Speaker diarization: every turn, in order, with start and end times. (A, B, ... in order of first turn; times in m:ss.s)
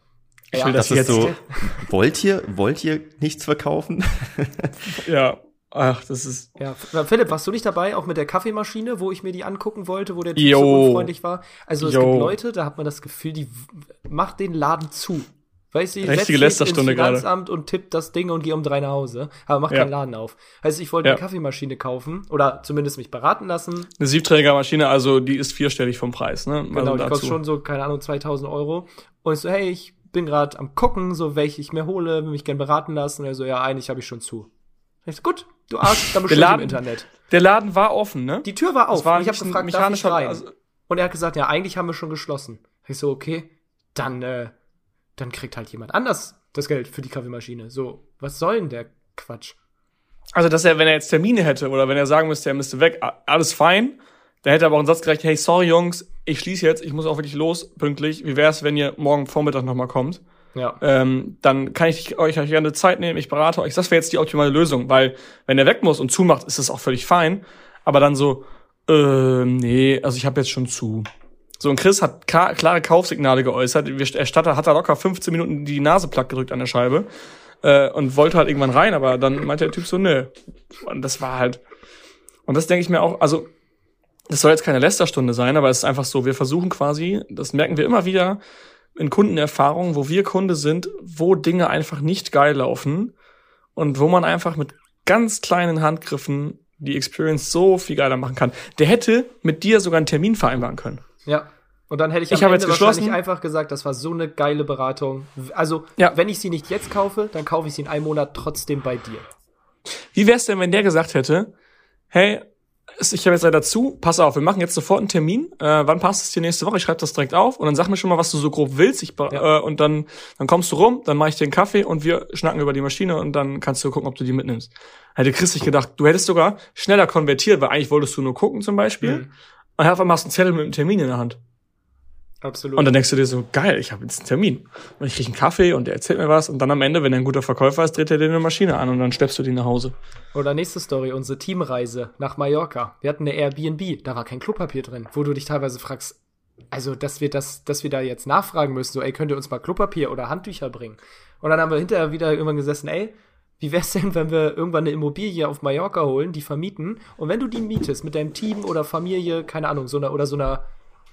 0:00.5-0:01.4 A
0:00.5-0:01.8 B
0:00.7-0:04.8 C
0:05.0-0:06.5 A
0:06.6-0:23.9 B
0:10.4-0:11.1 A
0:11.8-0:12.4 A
0:16.0-0:17.2 A
0:24.0-0:27.4 A
0:26.7-0:34.5 B
0:35.1-0:37.1 B
0:36.3-0:40.5 A
0:38.4-0:44.5 B
0:45.2-0:49.6 B
0:50.4-1:00.2 A
1:00.8-1:11.1 A
1:11.6-1:17.1 A
1:17.6-1:21.6 A
1:22.5-1:23.5 A
1:24.3-1:28.4 A
1:29.0-1:33.1 A
1:33.8-1:41.0 A
1:41.2-1:49.3 B
1:42.3-1:43.2 A
1:50.1-1:51.5 A
1:52.1-1:52.4 A
1:53.0-2:09.2 A
2:09.0-2:09.3 B
2:09.8-2:11.4 A
2:12.4-2:12.9 B
2:12.8-2:19.9 A
2:20.3-2:26.2 B
2:26.7-2:40.6 B